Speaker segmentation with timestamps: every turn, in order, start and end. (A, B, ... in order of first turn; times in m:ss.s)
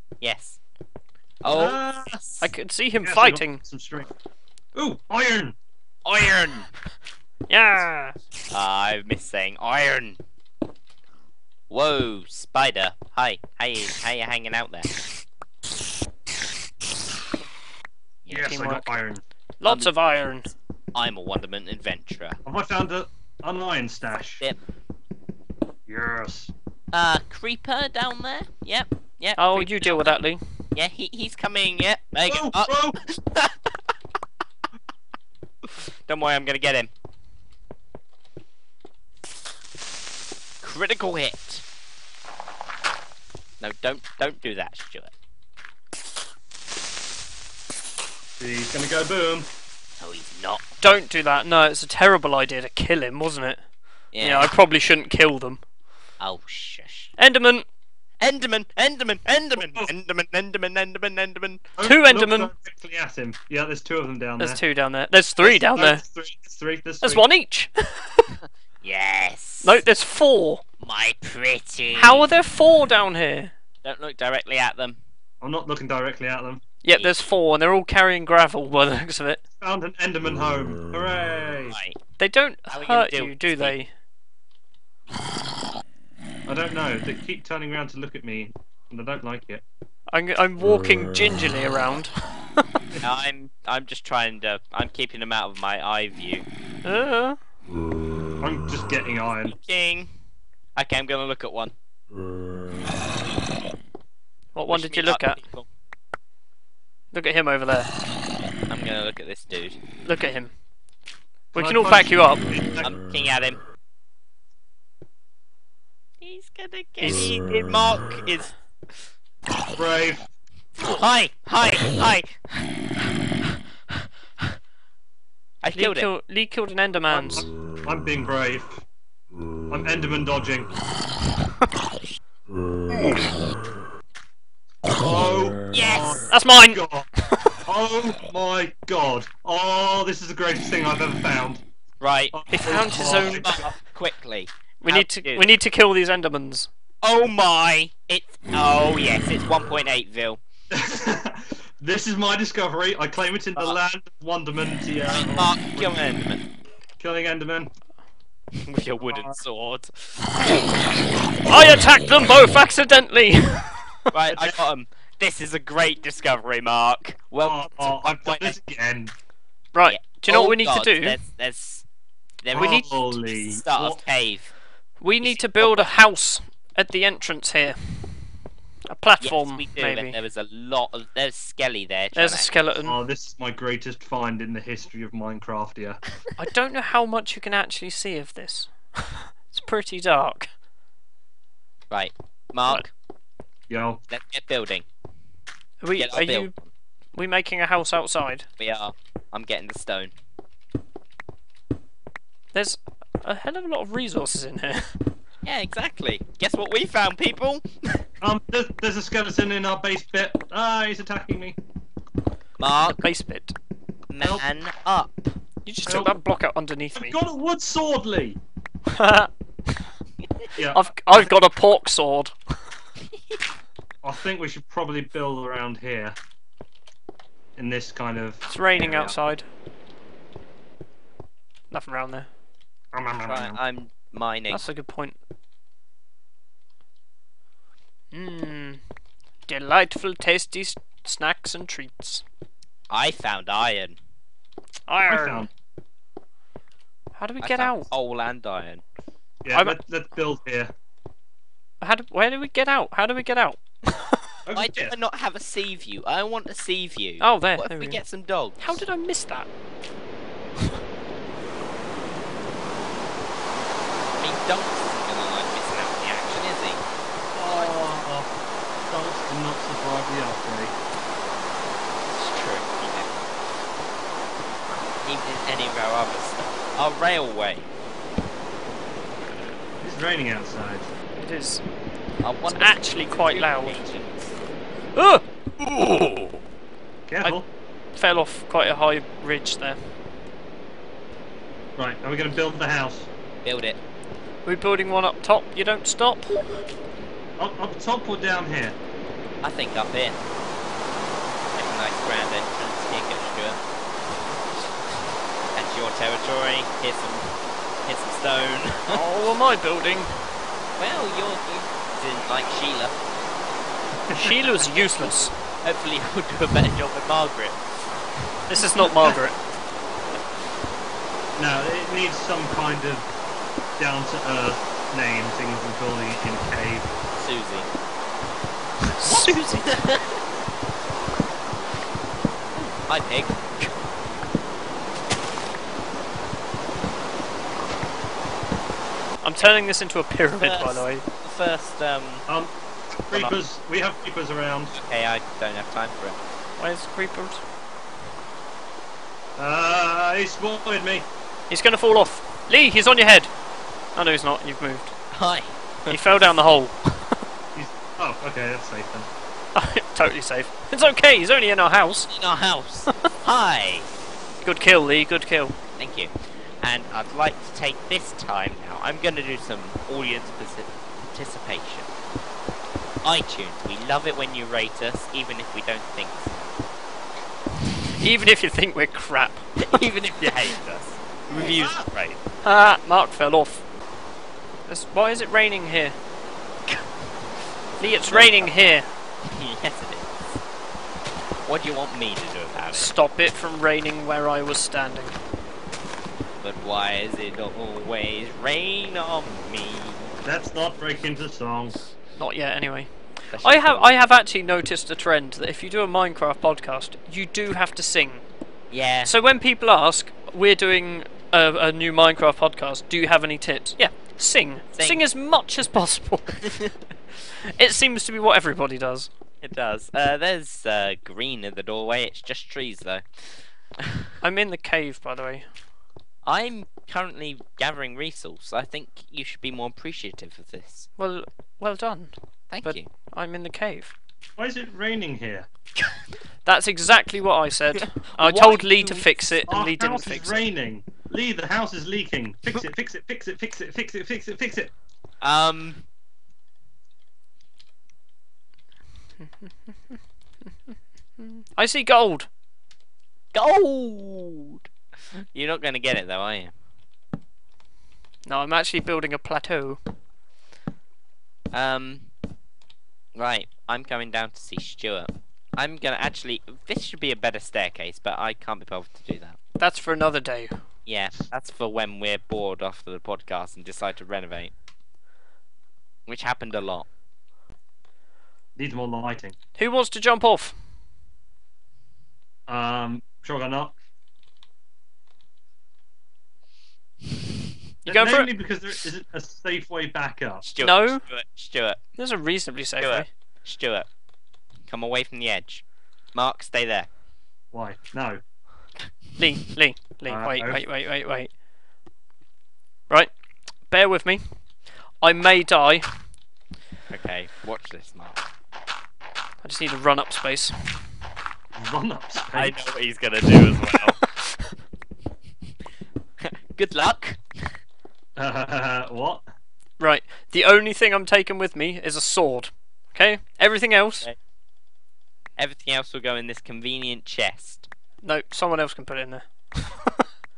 0:00.2-0:00.6 A
0:01.4-0:02.5 A
0:01.4-0:02.2 B
0:02.4-0:03.6 C
0:03.0-0:04.1 B
0:04.8-0:05.6 B
0:06.0-0:06.7 A
0:07.5-0:08.1 C
0:08.5-0:10.2 A
0:11.7-0:14.9 A
0:18.2-0:18.6 A
0:18.3-0:19.2 B
0:18.4-0:19.0 C
0:19.6-0:20.5 C
0:19.6-0:19.9 A
0:20.9-0:22.4 A
0:22.4-0:24.4 B
0:25.9-0:26.5 B
0:26.9-0:30.2 A
0:29.4-0:30.4 C
0:30.7-0:33.8 A
0:32.2-0:33.0 B
0:36.1-0:36.9 A
0:40.6-0:41.6 A
0:43.6-0:45.1 A
0:48.4-0:49.5 B
0:50.0-0:50.8 A
0:50.8-0:53.6 C
0:54.1-0:54.5 A
0:54.2-0:55.6 C
0:56.2-0:57.1 A
0:57.2-0:57.7 C
0:58.2-1:01.6 A
0:59.6-0:59.9 B
1:01.8-1:04.6 B
1:01.8-1:02.5 C
1:04.4-1:06.0 C
1:05.4-1:07.2 B
1:07.0-1:08.3 C
1:08.8-1:09.8 A
1:09.6-1:10.6 C
1:10.8-1:12.3 A
1:11.9-1:13.5 C
1:13.8-1:15.0 A
1:15.4-1:16.6 B
1:16.8-1:19.4 C
1:16.9-1:17.3 A
1:19.6-1:21.8 B
1:21.7-1:22.0 A
1:22.2-1:23.9 C
1:22.7-1:23.8 A
1:26.5-1:29.6 B
1:30.1-1:32.1 C
1:33.0-1:36.4 A
1:36.8-1:37.4 C
1:38.4-1:39.6 B
1:39.4-1:40.1 A
1:40.8-1:41.7 A
1:44.6-1:45.4 C
1:44.7-1:45.7 A
1:47.1-1:47.9 C
1:48.7-1:49.8 A
1:50.0-1:50.5 C
1:51.5-1:52.4 C
1:51.6-1:53.0 B
1:52.8-1:53.6 A
1:56.2-1:58.5 A
1:57.0-1:57.3 C
1:59.7-2:00.2 B
2:00.8-2:02.8 A
2:05.6-2:06.1 A
2:05.7-2:07.5 C
2:07.1-2:08.8 B
2:09.7-2:10.7 B
2:14.9-2:17.1 B
2:15.7-2:16.2 A
2:16.3-2:16.8 C
2:17.7-2:21.6 B
2:22.0-2:22.3 A
2:22.3-2:23.6 B
2:22.5-2:23.6 C
2:23.4-2:25.6 A
2:24.8-2:26.7 C
2:27.0-2:30.4 A
2:30.7-2:36.0 B
2:35.1-2:36.4 A
2:37.0-2:37.7 B
2:38.6-2:40.7 A
2:39.1-2:39.4 B
2:41.5-2:44.1 C
2:44.1-2:48.6 A
2:44.3-2:44.6 B
2:47.4-2:49.1 B
2:49.7-2:51.2 C
2:49.8-2:51.8 A
2:52.4-2:54.5 A
2:52.5-2:53.0 C
2:52.5-2:54.0 B
2:55.0-2:58.0 C
2:55.2-2:55.9 A
2:58.9-3:00.2 C
2:59.2-3:02.6 A
3:02.1-3:03.0 C
3:02.8-3:06.0 B
3:06.4-3:10.5 C
3:11.9-3:12.9 A
3:13.7-3:14.0 B
3:14.1-3:14.9 A
3:15.8-3:16.5 C
3:16.0-3:16.6 A
3:17.1-3:18.5 C
3:18.6-3:20.1 A
3:22.5-3:24.9 C
3:25.4-3:28.1 A
3:28.2-3:31.6 B
3:32.6-3:33.1 A
3:32.8-3:33.6 C
3:34.1-3:35.3 A
3:35.6-3:37.2 C
3:35.9-3:36.1 B
3:37.0-3:38.4 B
3:38.9-3:39.3 C
3:40.6-3:41.3 B
3:40.7-3:42.4 C
3:44.0-3:46.2 B
3:47.6-3:49.2 B
3:48.5-3:49.4 C
3:51.7-3:52.3 C
3:52.9-3:53.6 B
3:53.2-3:54.7 A
3:54.5-3:55.2 C
3:58.1-3:58.8 C
3:59.5-4:02.2 C
4:02.9-4:04.0 A
4:04.9-4:05.5 C
4:05.1-4:05.5 B
4:07.2-4:07.9 C
4:07.4-4:08.8 A
4:09.4-4:10.7 B
4:11.8-4:14.2 C
4:14.5-4:14.9 B
4:14.5-4:18.8 A
4:17.2-4:18.0 C
4:18.6-4:19.5 C
4:24.2-4:26.8 A
4:27.4-4:28.3 B
4:28.9-4:30.7 B
4:32.2-4:33.2 A
4:35.0-4:37.7 A
4:39.8-4:40.9 B
4:41.2-4:41.6 C
4:42.2-4:44.4 A
4:42.5-4:43.8 C
4:44.9-4:45.2 C
4:45.6-4:46.4 A
4:47.1-4:47.5 B
4:48.0-4:49.8 C
4:51.8-4:53.1 B
4:53.4-4:53.8 A
4:54.4-4:56.4 C
4:57.4-4:58.8 B
4:59.4-5:00.2 A
5:01.6-5:03.6 A
5:05.6-5:09.0 A
5:08.9-5:10.2 C
5:10.8-5:13.0 A
5:14.1-5:14.4 B
5:14.2-5:15.3 C
5:14.6-5:17.6 A
5:18.5-5:19.4 C
5:21.4-5:23.1 B
5:23.8-5:26.9 B
5:27.2-5:27.7 A
5:28.8-5:29.4 C
5:29.0-5:30.2 A
5:32.9-5:33.7 A
5:39.2-5:41.0 C
5:40.4-5:42.2 A
5:42.3-5:42.5 B
5:43.1-5:44.8 B
5:43.1-5:43.4 A
5:44.7-5:46.2 A
5:46.6-5:47.4 C
5:49.4-5:51.1 B
5:51.5-5:53.3 C
5:53.9-5:54.9 C
5:55.1-5:56.0 A
5:55.9-5:57.2 C
5:57.6-5:59.1 B
5:59.6-6:02.1 C
6:02.1-6:03.9 A
6:04.4-6:05.6 C
6:05.8-6:06.1 A
6:06.6-6:11.9 A
6:13.0-6:16.4 A
6:17.9-6:19.5 C
6:19.6-6:22.2 A
6:21.3-6:21.8 B
6:22.4-6:23.6 C
6:24.7-6:26.0 C
6:27.8-6:28.6 A
6:27.8-6:28.9 C
6:29.3-6:30.4 A
6:31.5-6:32.9 A
6:32.7-6:35.2 C
6:36.4-6:40.1 A
6:40.2-6:41.8 B
6:42.2-6:48.2 C
6:43.3-6:44.0 A
6:48.7-6:49.2 A
6:49.0-6:56.5 C
6:54.7-6:55.0 A
6:57.5-6:59.1 C
6:59.4-7:03.0 A
7:03.8-7:04.1 A
7:04.2-7:05.5 C
7:06.2-7:10.9 A
7:11.0-7:12.1 C
7:12.5-7:12.9 A
7:12.6-7:13.9 C
7:14.4-7:15.5 B
7:16.4-7:20.4 C
7:17.7-7:19.4 A
7:19.5-7:24.7 B
7:25.2-7:25.8 A
7:31.2-7:32.3 C
7:33.3-7:34.7 A
7:35.3-7:36.5 A
7:38.2-7:39.8 C
7:41.5-7:42.1 A
7:43.2-7:49.4 A
7:49.6-7:50.6 C
7:50.9-7:54.5 A
7:56.1-7:56.9 A
7:58.6-7:59.4 B
7:59.6-8:00.5 C
8:02.5-8:03.8 B
8:07.8-8:10.5 B
8:07.9-8:08.3 C
8:10.4-8:11.8 A
8:10.6-8:11.0 C
8:12.0-8:13.1 C
8:12.8-8:13.9 A
8:14.7-8:15.6 A
8:16.1-8:16.9 A
8:17.5-8:18.2 B
8:19.2-8:21.3 C
8:20.1-8:20.7 B
8:23.7-8:24.2 C
8:25.0-8:25.9 C
8:26.9-8:28.2 A
8:29.4-8:30.8 C
8:31.6-8:32.6 B
8:32.3-8:34.0 A
8:36.2-8:37.5 A
8:38.2-8:39.2 B
8:39.8-8:44.1 C
8:45.4-8:47.7 A
8:48.0-8:49.8 C